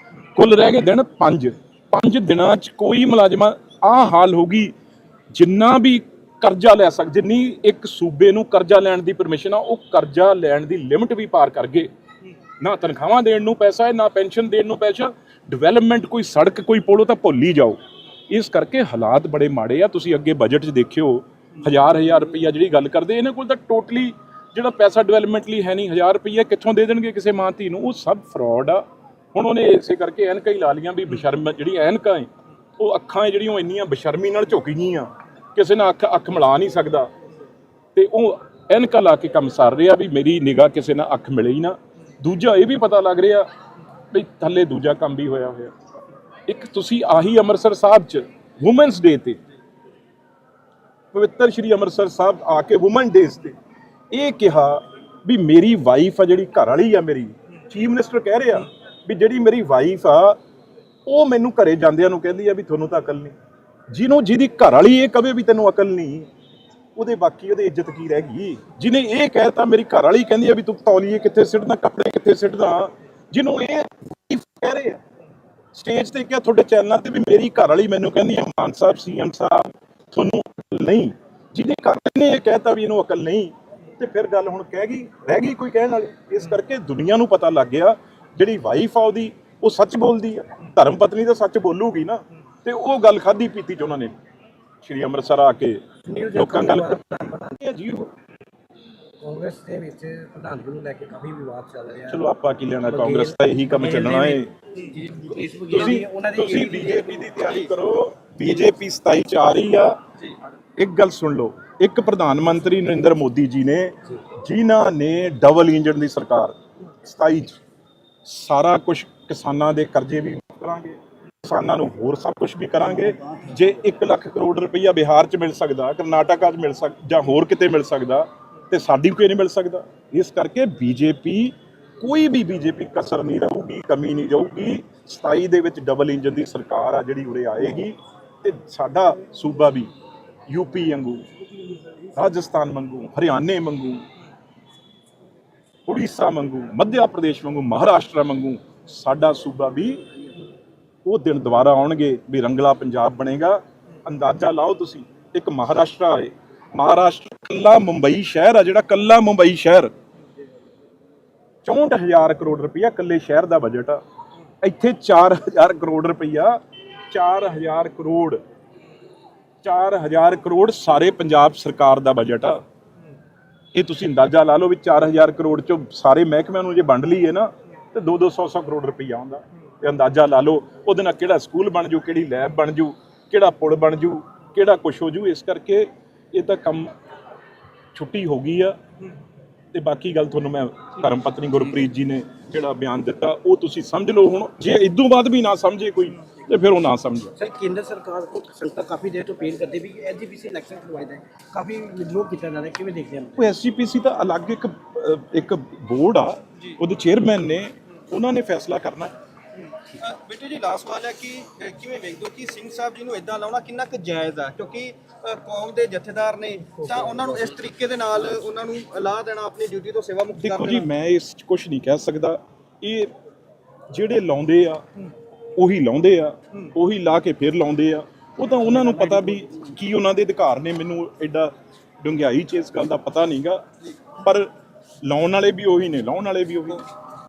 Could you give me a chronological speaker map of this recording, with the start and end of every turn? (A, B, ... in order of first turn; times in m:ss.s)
0:00.3-0:04.7 A
0:05.3-0:11.9 A
0:12.6-0:17.8 A
0:18.3-0:37.1 A
0:37.9-0:43.5 A
0:44.1-0:45.7 A
0:46.5-0:49.4 A
0:51.1-0:53.5 A
0:54.1-1:00.4 A
1:01.0-1:03.3 A
1:03.9-1:06.3 A
1:07.0-1:15.0 A
1:15.7-1:34.1 A
1:34.8-1:37.0 A
1:36.1-1:37.5 B
1:37.6-1:38.1 A
1:39.2-1:42.2 B
1:42.0-1:44.5 A
1:42.8-1:47.6 B
1:45.7-1:49.9 A
1:50.8-1:57.6 A
1:58.2-2:19.9 A
2:20.5-2:21.2 A
2:22.1-2:24.0 A
2:25.9-2:30.0 A
2:31.0-2:39.9 A
2:41.6-2:44.0 A
2:44.6-2:48.4 A
2:49.6-2:52.6 A
2:53.7-3:06.9 A
3:07.9-3:08.7 A
3:09.7-3:17.3 A
3:17.4-3:23.4 B
3:23.4-3:29.1 A
3:30.0-3:40.9 C
3:40.4-3:43.1 A
3:43.9-3:44.8 A
3:45.6-3:53.6 A
3:54.2-3:54.5 A
3:55.0-3:56.8 A